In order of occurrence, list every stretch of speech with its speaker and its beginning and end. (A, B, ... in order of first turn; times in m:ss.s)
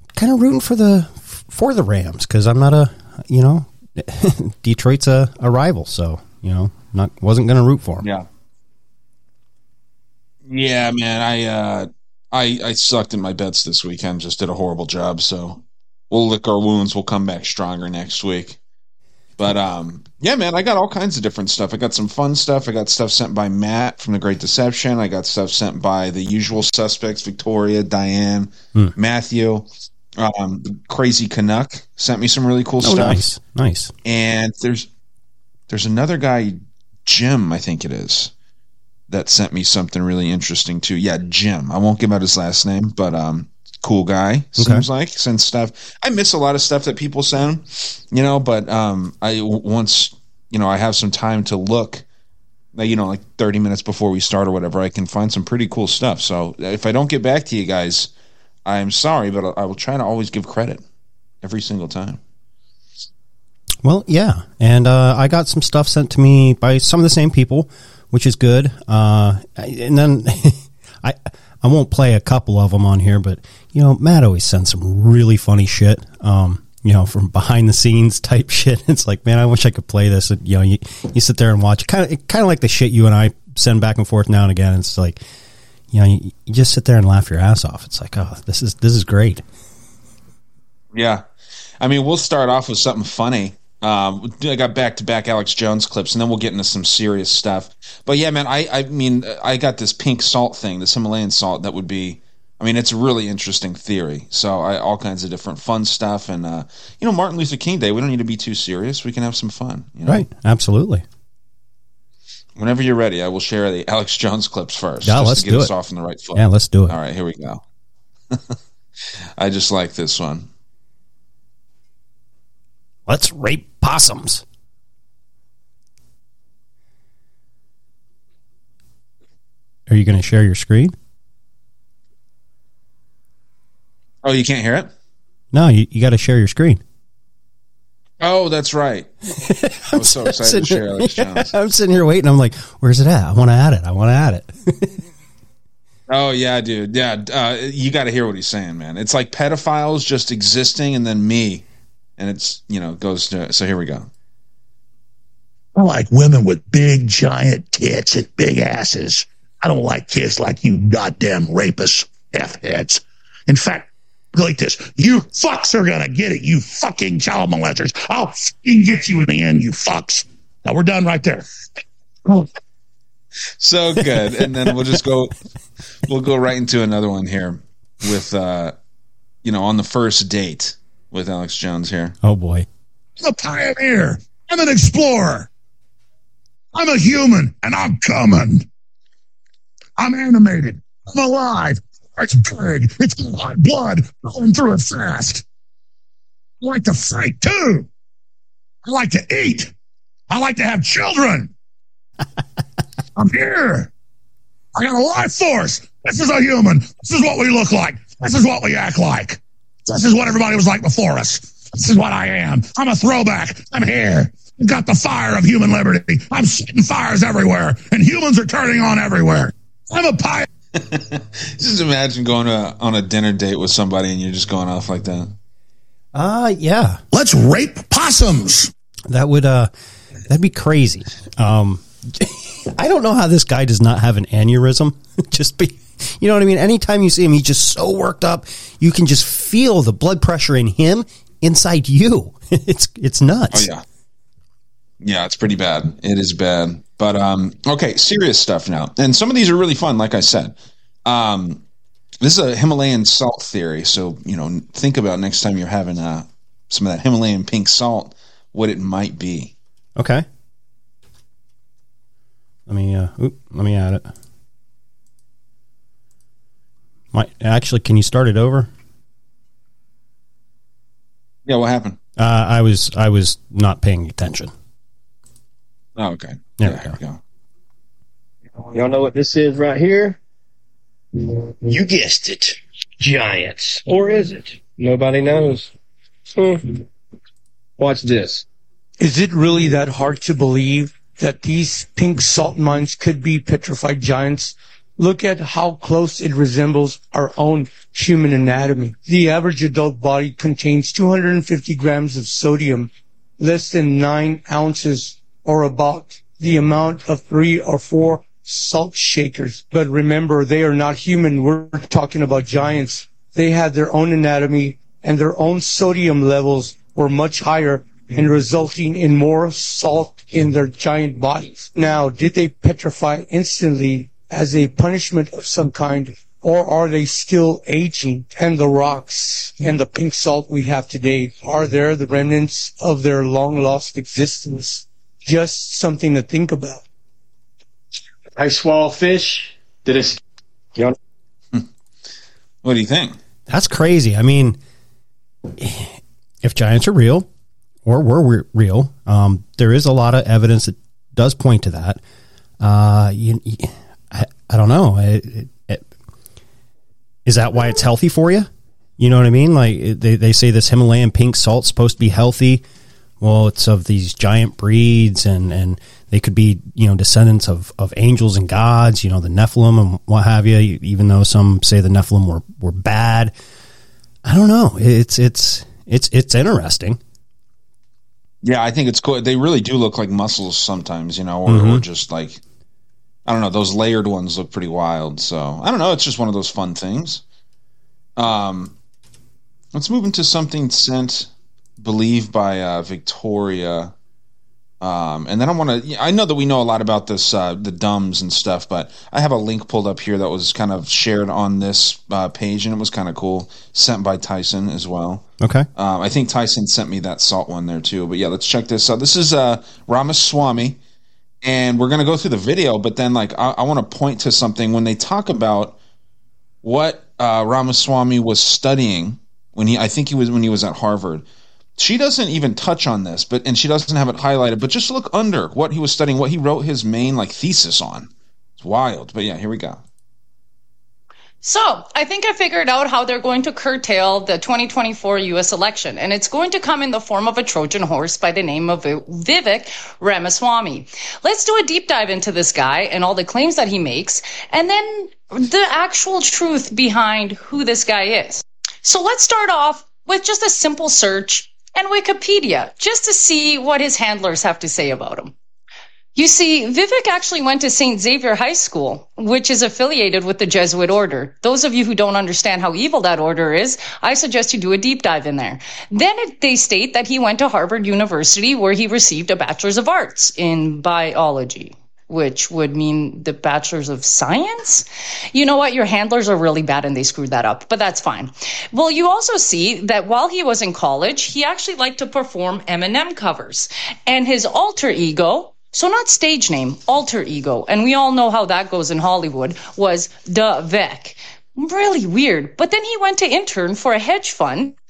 0:00.2-0:08.1 A
0:10.4-0:18.6 B
0:19.4-0:33.2 B
0:32.8-0:33.9 A
0:34.0-0:34.9 B
0:35.7-0:38.3 B
0:39.1-0:52.0 B
0:44.6-0:44.8 A
0:52.7-0:58.1 B
0:58.6-1:00.8 B
1:01.4-1:02.2 B
1:03.8-1:25.2 A
1:25.9-1:29.4 A
1:30.9-1:31.2 B
1:31.8-1:50.2 B
1:50.0-1:51.0 A
1:52.6-1:57.6 B
1:55.0-1:55.7 A
1:56.3-1:57.0 A
1:59.4-2:00.5 B
2:03.1-2:04.4 A
2:09.9-2:10.9 A
2:14.2-2:14.9 B
2:15.5-2:16.8 A
2:18.2-2:19.1 B
2:19.4-2:24.9 A
2:19.9-2:21.5 B
2:26.1-2:31.6 B
2:32.2-2:34.1 B
2:35.7-2:51.5 C
2:53.6-2:55.3 B
2:56.1-2:58.8 B
2:59.4-3:02.1 B
3:02.2-3:02.6 A
3:03.2-3:05.5 C
3:06.7-3:08.7 C
3:10.0-3:15.4 C
3:16.6-3:17.9 C
3:18.8-3:19.7 C
3:20.3-3:21.5 C
3:23.2-3:23.9 C
3:24.7-3:40.5 C
3:40.7-3:45.3 B
3:46.1-3:47.0 A
3:47.1-3:48.7 C
3:49.1-3:49.7 A
3:50.3-4:03.7 A
4:03.5-4:03.8 B
4:05.0-4:11.6 B
4:12.2-4:19.5 B
4:20.0-4:20.2 A
4:22.7-4:24.1 A
4:27.1-4:28.7 A
4:31.4-4:32.0 B
4:32.2-4:34.5 A
4:36.0-4:37.2 B
4:36.6-4:37.0 A
4:38.7-4:40.2 D
4:41.2-4:45.7 D
4:46.3-4:46.8 D
4:47.8-4:48.4 D
4:49.0-5:36.8 E
5:38.4-5:40.2 D
5:42.6-5:43.2 B
5:43.5-5:44.6 A
5:45.6-5:47.3 A
5:47.8-5:52.0 A
5:52.6-5:55.8 A
5:57.2-6:02.6 A
6:03.2-6:13.3 A
6:14.2-6:17.0 A
6:18.4-6:22.4 B
6:21.4-6:21.8 A
6:23.2-6:27.2 B
6:28.2-6:28.7 B
6:29.7-6:33.9 B
6:34.8-6:50.8 B
6:45.4-6:45.7 A
6:51.4-6:55.8 B
6:56.6-7:01.2 B
7:01.8-7:09.8 B
7:11.4-7:35.3 F
7:36.1-8:14.8 F